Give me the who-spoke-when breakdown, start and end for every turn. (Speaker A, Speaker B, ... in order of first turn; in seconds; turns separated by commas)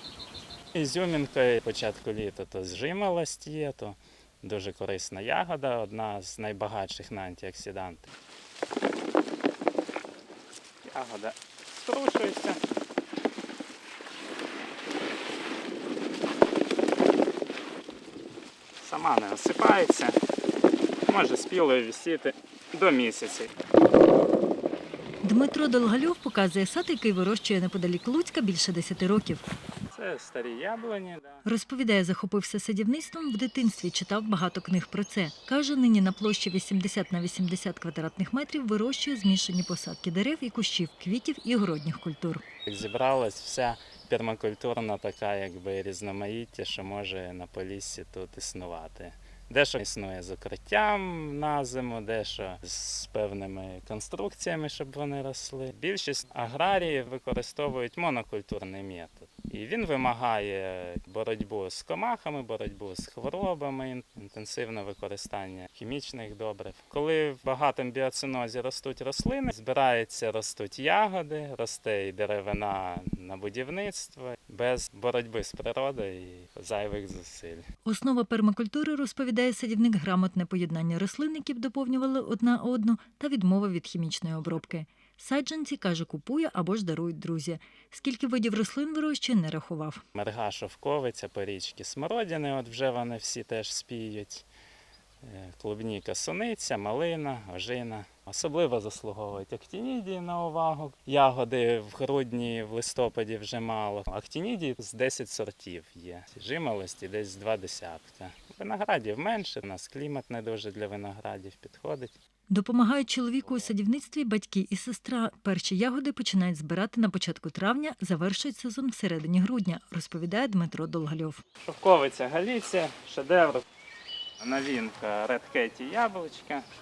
Speaker A: 0.7-8.1, Speaker A: 10.8-12.6, Speaker A: 18.8-20.2, Speaker A: 21.1-23.5, Speaker B: 25.2-29.4, Speaker A: 29.9-31.4, Speaker B: 31.4-42.4, Speaker A: 42.6-77.6, Speaker B: 77.8-90.0, Speaker A: 84.4-84.7, Speaker A: 90.1-94.5, Speaker A: 95.2-112.1, Speaker B: 112.5-121.4, Speaker A: 113.4-113.7, Speaker A: 121.6-123.6, Speaker A: 124.4-126.7